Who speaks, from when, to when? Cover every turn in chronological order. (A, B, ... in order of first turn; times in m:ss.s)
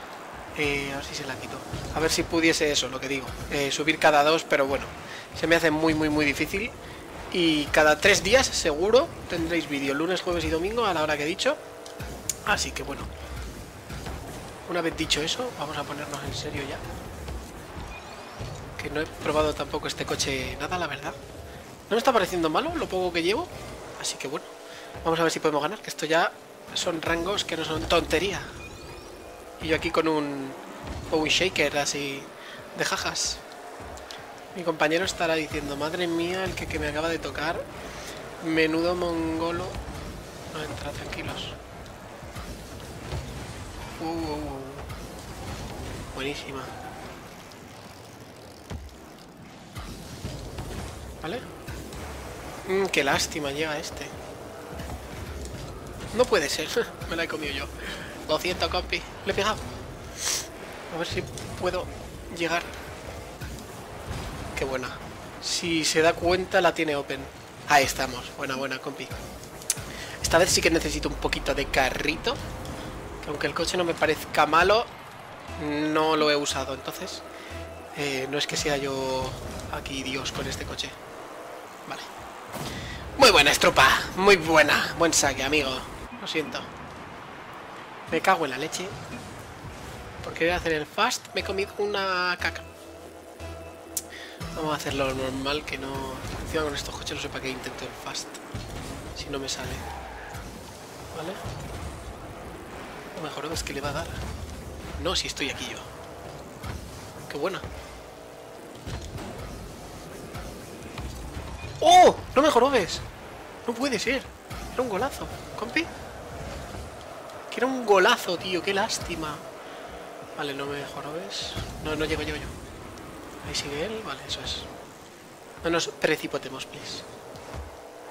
0:00.5-0:06.7 A
0:07.3-0:11.6 A
0:12.4-0:13.1 A
0:14.6-0:16.8 A
0:18.8-0:21.2 A
0:21.9-0:24.5 A
0:25.0-0:28.5 A
0:29.6-0:33.4 A
0:34.5-0:37.6 A
0:38.4-0:39.8 A
0:40.5-0:41.6 A
0:44.0-0:44.9 A
0:46.1-0:46.7 A
0:51.2-0:51.4 A
0:52.6-0:54.1 A
0:56.1-0:59.6 A
1:00.2-1:02.7 A
1:04.5-1:09.1 A
1:10.2-1:12.4 A
1:13.2-1:14.9 A
1:15.6-1:17.2 A
1:17.9-1:21.0 A
1:23.2-1:26.7 A
1:28.1-1:28.9 A
1:30.2-1:32.6 A
1:34.5-1:38.4 A
1:39.1-1:39.8 A
1:41.1-1:41.4 A
1:43.1-1:44.2 A
1:45.0-1:45.9 A
1:47.3-1:47.6 A
1:51.8-1:53.0 A
1:53.6-1:55.9 A
1:57.5-1:59.4 A
2:00.4-2:02.5 A
2:03.4-2:04.7 A
2:05.6-2:07.0 A